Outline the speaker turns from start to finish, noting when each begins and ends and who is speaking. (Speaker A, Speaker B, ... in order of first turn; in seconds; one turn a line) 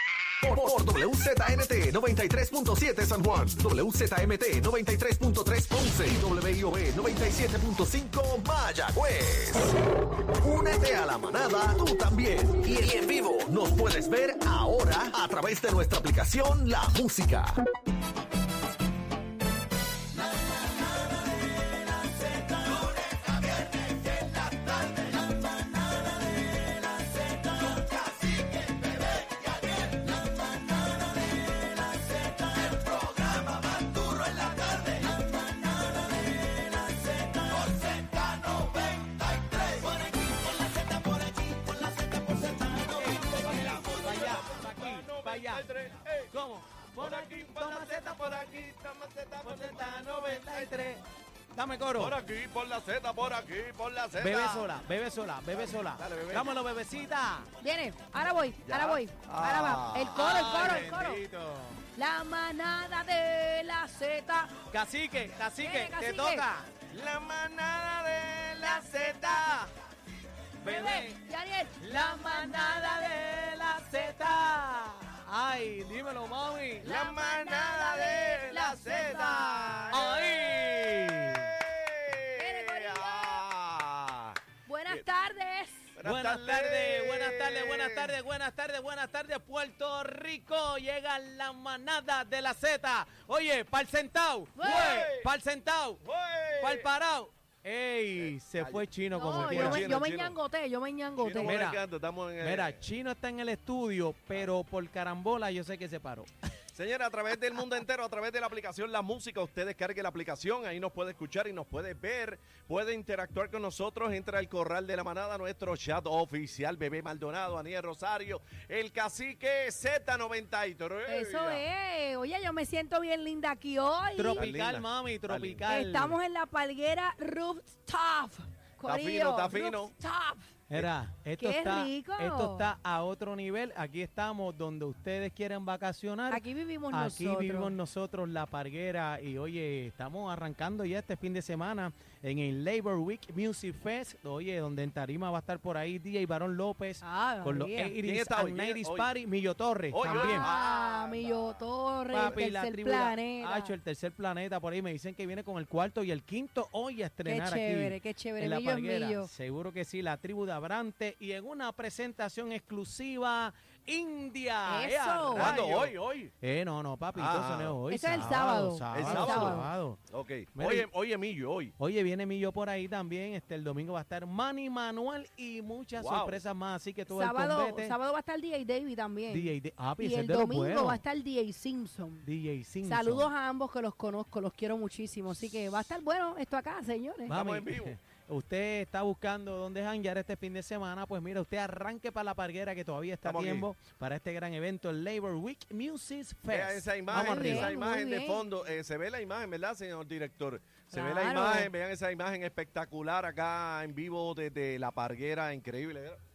Speaker A: 0.5-9.7
Speaker A: 10.5-17.6
Speaker A: 32.9-35.0
Speaker A: 37.5-42.7
Speaker B: 42.5-42.8
Speaker C: 42.7-45.7
Speaker B: 43.4-46.3
Speaker C: 46.3-48.6
Speaker B: 47.0-50.8
Speaker C: 49.4-51.0
Speaker C: 51.5-52.2
Speaker B: 52.0-54.7
Speaker C: 54.1-57.5
Speaker B: 55.6-56.5
Speaker D: 57.6-61.2
Speaker B: 58.6-60.4
Speaker C: 60.1-61.8
Speaker D: 61.9-64.5
Speaker C: 64.7-66.7
Speaker D: 65.6-66.5
Speaker B: 66.9-69.7
Speaker D: 68.6-69.6
Speaker C: 70.6-71.2
Speaker D: 70.6-73.2
Speaker C: 71.8-76.9
Speaker D: 76.8-80.1
Speaker B: 76.8-85.0
Speaker C: 79.9-81.5
Speaker D: 82.4-83.4
Speaker D: 84.7-86.0
Speaker B: 86.0-88.1
Speaker C: 86.0-96.0
Speaker D: 94.5-95.1
Speaker B: 94.6-95.3
Speaker B: 96.0-96.9
Speaker C: 96.6-99.9
Speaker B: 98.2-100.3
Speaker D: 99.1-101.6
Speaker B: 101.2-102.8
Speaker C: 101.4-101.8
Speaker C: 102.4-106.3
Speaker B: 106.7-121.6
Speaker D: 121.1-124.5
Speaker C: 124.2-126.2
Speaker B: 124.3-125.6
Speaker D: 125.7-130.5
Speaker B: 128.8-129.9
Speaker C: 130.7-150.5
Speaker D: 131.4-132.7
Speaker D: 136.3-137.8
Speaker D: 147.0-147.9
Speaker B: 148.0-149.1
Speaker B: 149.9-151.6
Speaker D: 150.0-153.7
Speaker C: 152.1-170.0
Speaker D: 157.2-159.3
Speaker D: 164.6-165.6
Speaker B: 165.3-166.3
Speaker B: 167.1-168.2
Speaker D: 167.9-169.7
Speaker B: 168.9-171.7
Speaker C: 170.5-170.9
Speaker C: 171.8-177.9
Speaker B: 176.0-176.4
Speaker D: 177.1-182.2
Speaker C: 179.3-181.0
Speaker C: 182.2-183.3
Speaker D: 182.8-187.3
Speaker C: 187.3-197.7
Speaker B: 187.3-187.9
Speaker B: 193.2-193.7
Speaker B: 196.5-206.2
Speaker D: 197.1-198.4
Speaker D: 200.9-201.7